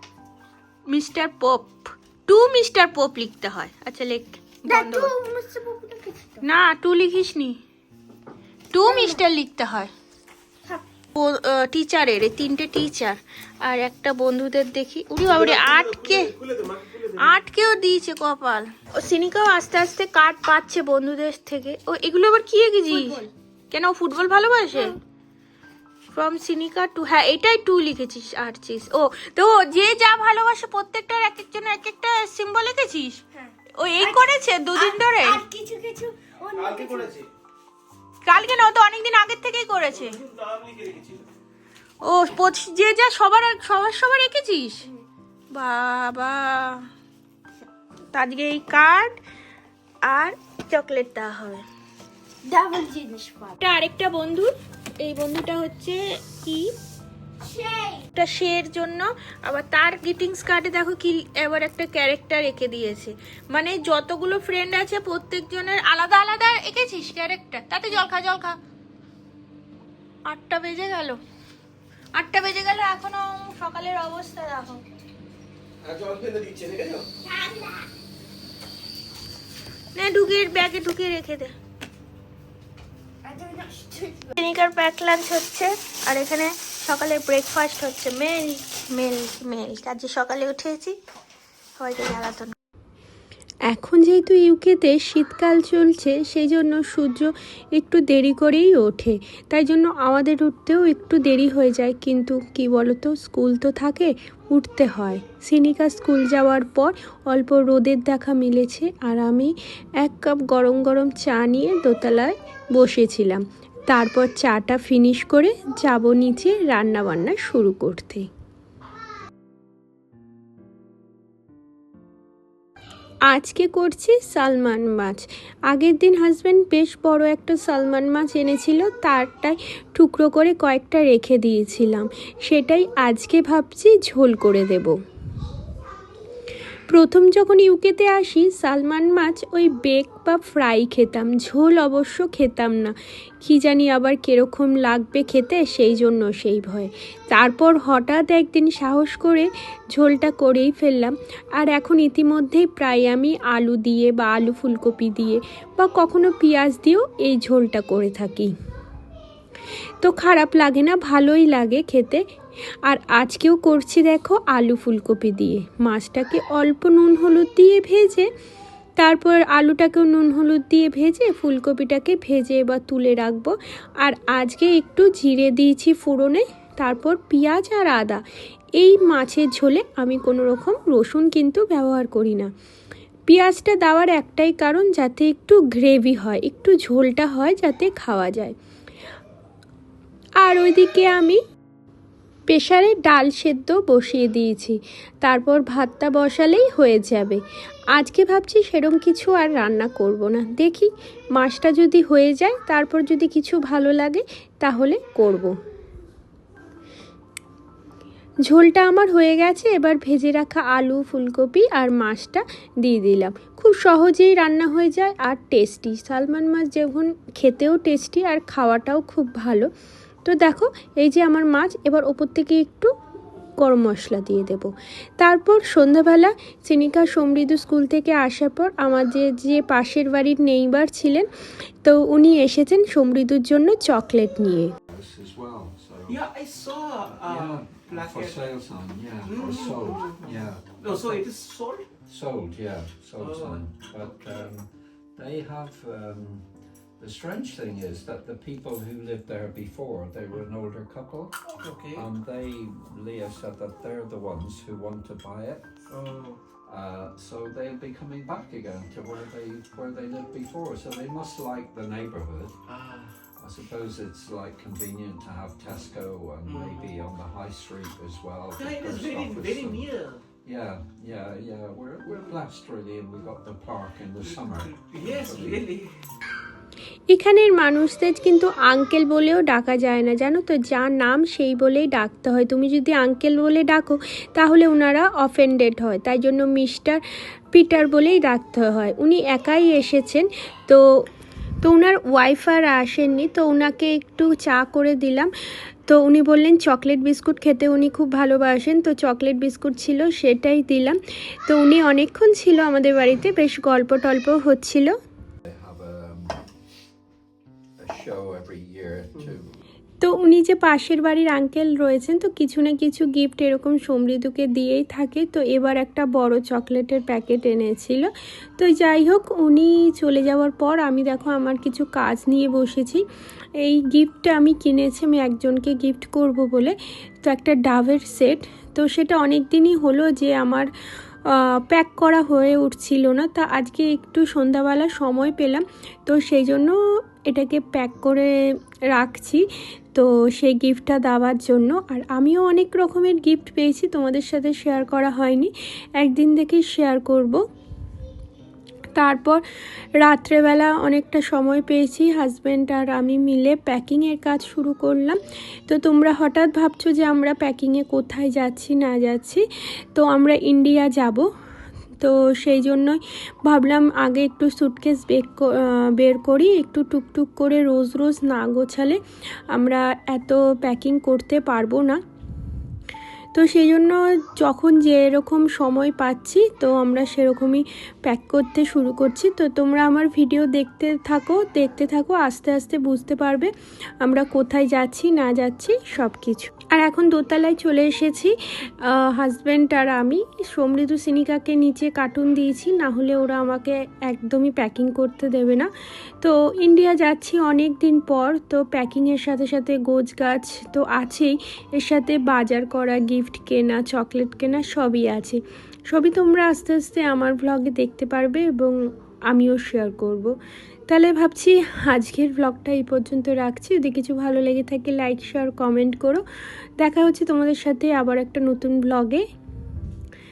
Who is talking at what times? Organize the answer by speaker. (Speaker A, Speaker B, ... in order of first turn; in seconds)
Speaker A: 0.9-5.1, 6.4-7.6, 8.7-9.9, 11.2-16.3, 17.2-25.0, 26.1-33.2, 33.7-35.4, 38.2-40.2, 42.0-44.9, 45.5-46.8, 48.1-49.2, 50.1-51.6, 53.6-56.7, 58.1-68.6, 70.3-71.2, 72.2-74.8, 80.0-81.5, 84.4-91.0, 91.8-92.5
Speaker B: 4.7-6.4, 8.7-9.2, 22.9-23.3, 33.3-37.1, 52.5-53.6, 57.4-58.0, 77.3-77.9, 83.2-84.3
Speaker C: 15.2-17.4, 36.5-37.3, 39.9-41.3, 75.8-77.1, 236.1-238.5, 239.2-241.9, 243.2-244.5, 251.6-252.1, 255.9-256.4, 262.7-263.1, 266.4-266.9, 268.6-270.2, 274.2-276.1
Speaker D: 93.7-118.3, 123.3-134.9, 136.9-158.5, 160.0-162.2, 162.9-168.3, 169.0-178.2, 178.8-182.5, 183.3-188.6, 190.4-191.4, 192.5-197.4, 197.9-205.5, 208.5-219.7, 220.2-222.9, 223.6-231.3, 231.8-234.7, 277.1-287.0, 287.5-290.8, 291.6-295.3, 295.9-304.9, 310.0-323.0, 323.6-330.7, 331.3-336.7, 337.3-347.4, 348.9-349.4, 350.0-361.3, 362.0-369.0, 369.5-372.0, 373.4-395.7, 396.2-408.8, 409.3-410.3, 410.9-416.2, 416.8-419.2
Speaker E: 234.9-236.2, 237.1-241.3, 242.1-255.7, 256.6-262.6, 263.4-269.9, 270.4-275.7, 305.5-306.4, 307.8-309.6